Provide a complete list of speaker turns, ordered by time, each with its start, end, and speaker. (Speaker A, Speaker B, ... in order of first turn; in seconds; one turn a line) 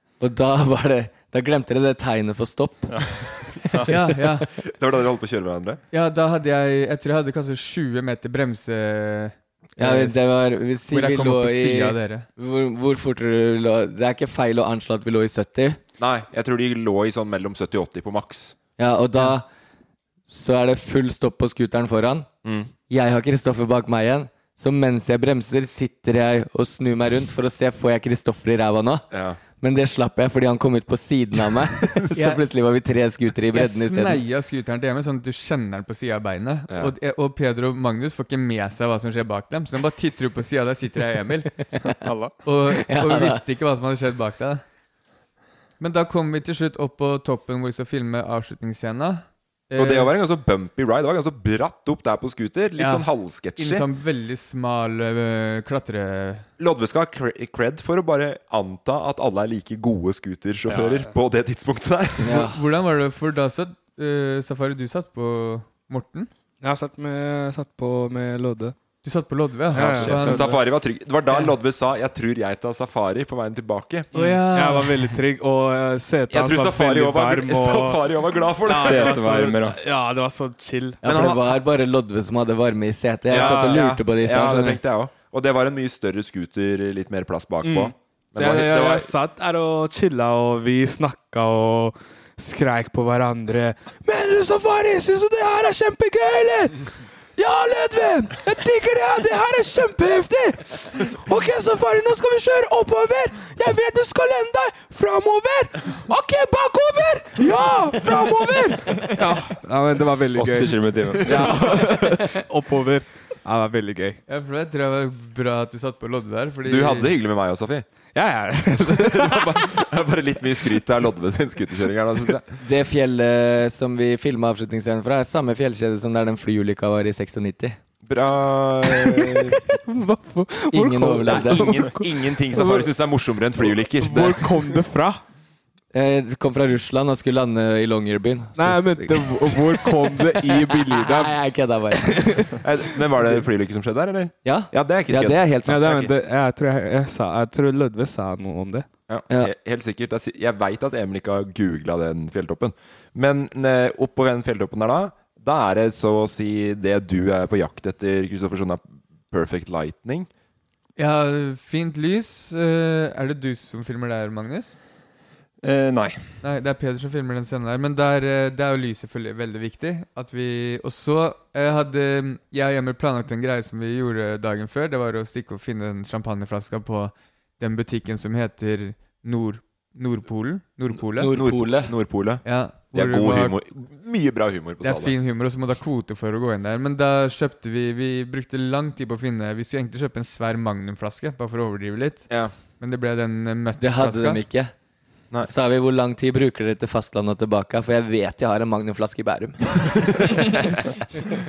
Speaker A: 0.2-2.9
Speaker B: 2.9-3.9
Speaker C: 3.9-4.5
Speaker D: 4.6-5.8
Speaker C: 5.9-12.2
Speaker A: 9.8-15.8
Speaker D: 16.0-18.6
Speaker A: 18.8-19.4
Speaker A: 20.3-22.3
Speaker D: 22.4-22.7
Speaker A: 22.9-29.1
Speaker D: 29.1-29.4
Speaker A: 29.6-34.2
Speaker C: 32.1-32.4
Speaker C: 33.5-41.5
Speaker B: 42.0-42.3
Speaker C: 42.4-44.6
Speaker A: 42.7-43.4
Speaker C: 45.8-50.1
Speaker D: 49.7-53.9
Speaker C: 52.8-56.5
Speaker D: 56.6-62.4
Speaker A: 62.2-62.6
Speaker C: 62.3-66.3
Speaker E: 66.6-68.7
Speaker C: 69.0-70.6
Speaker E: 69.7-70.6
Speaker D: 69.8-74.1
Speaker E: 74.1-81.0
Speaker C: 74.1-75.2
Speaker D: 76.3-79.2
Speaker B: 78.8-79.8
Speaker A: 81.0-84.8
Speaker D: 81.0-81.5
Speaker E: 83.3-83.8
Speaker D: 83.3-89.1
Speaker E: 87.6-96.8
Speaker E: 97.4-114.2
Speaker B: 110.3-111.7
Speaker C: 114.3-117.1
Speaker D: 116.7-117.8
Speaker E: 118.1-119.8
Speaker D: 118.8-122.5
Speaker A: 122.6-127.8
Speaker D: 128.1-129.8
Speaker E: 129.1-132.9
Speaker A: 130.7-131.8
Speaker D: 131.2-134.8
Speaker E: 133.6-135.2
Speaker A: 135.9-142.4
Speaker E: 138.5-141.3
Speaker E: 141.9-142.6
Speaker D: 142.6-146.1
Speaker A: 144.4-146.0
Speaker E: 145.7-148.9
Speaker D: 149.1-160.3
Speaker C: 161.0-164.7
Speaker B: 165.6-166.2
Speaker C: 166.4-181.3
Speaker A: 181.2-181.9
Speaker D: 181.3-185.1
Speaker C: 182.4-183.6
Speaker C: 184.8-194.4
Speaker A: 193.8-194.7
Speaker A: 195.4-200.4